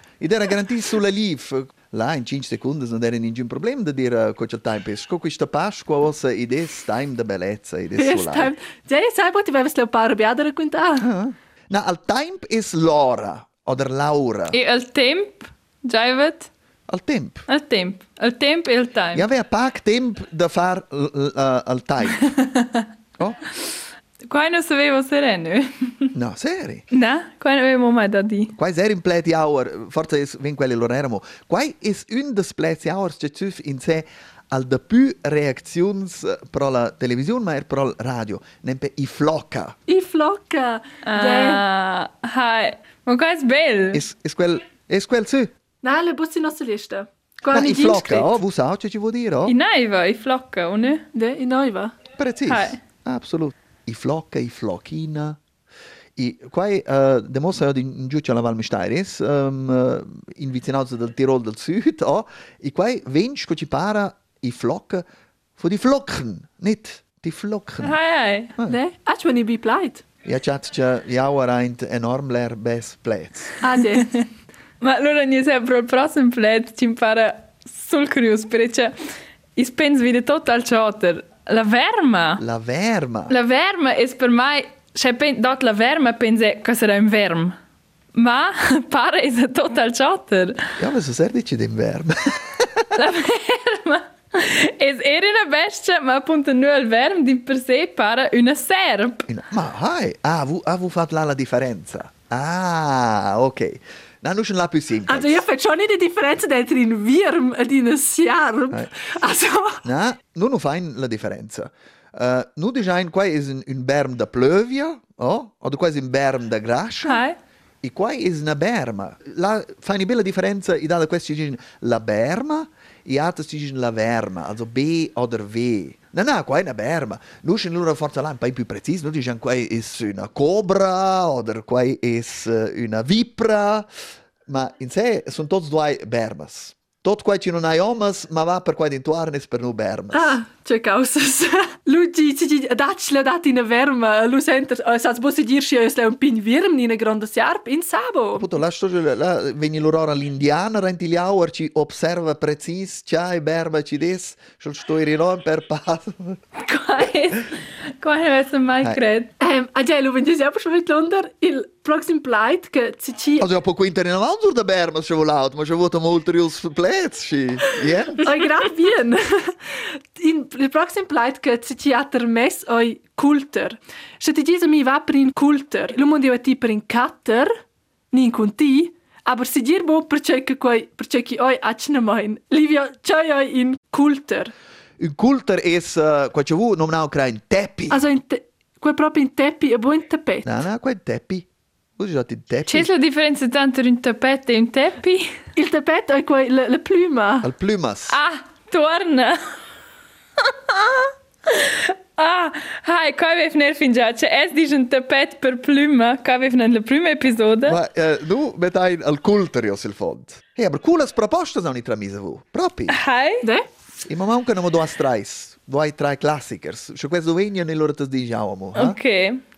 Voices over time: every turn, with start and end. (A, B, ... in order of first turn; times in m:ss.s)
0:00.2-0:08.5 A
0:07.9-0:11.1 B
0:11.0-0:14.6 A
0:14.5-0:16.5 C
0:16.9-0:17.5 A
0:17.5-0:19.2 C
0:19.1-0:22.3 A
0:22.2-0:22.8 C
0:24.2-0:26.1 C
0:26.1-0:26.8 A
0:26.9-0:28.5 C
0:28.6-0:39.8 A
0:39.9-0:41.6 B
0:41.0-0:44.0 C
0:43.9-0:45.5 A
0:45.8-0:48.4 B
0:47.5-0:49.5 A
0:49.5-0:51.0 C
0:51.1-0:51.9 B
0:52.2-0:55.4 A
0:52.5-0:52.8 C
0:56.2-1:05.0 A
1:05.6-1:08.0 A
1:07.8-1:08.5 C
1:08.7-1:10.0 B
1:10.2-1:13.5 A
1:13.6-1:14.1 B
1:14.8-1:18.9 C
1:19.6-1:22.4 C
1:22.4-1:23.3 A
1:23.3-1:27.6 C
1:28.1-1:30.6 C
1:30.8-1:32.9 A
1:32.9-1:39.3 C
1:39.3-1:45.4 A
1:45.1-1:49.8 B
1:48.7-1:49.0 A
1:49.8-1:57.2 A
1:57.0-1:57.4 C
1:57.8-2:13.9 A
2:14.5-2:20.4 A
2:20.1-2:28.5 B
2:28.3-2:36.4 A
2:36.6-2:39.3 C
2:39.4-2:43.5 B
2:43.4-2:48.3 A
2:48.2-2:49.5 B
2:50.2-2:57.5 B
2:58.1-3:04.5 B
3:05.0-3:08.0 A
3:07.9-3:10.5 B
3:10.4-3:11.5 A
3:12.0-3:12.9 A
3:12.7-3:15.3 C
3:15.5-3:17.5 B
3:17.4-3:18.2 A
3:18.1-3:19.4 C
3:20.5-3:27.8 C
3:27.6-3:33.0 A
3:32.9-3:33.4 C
3:34.1-3:39.0 A
3:38.7-3:39.4 C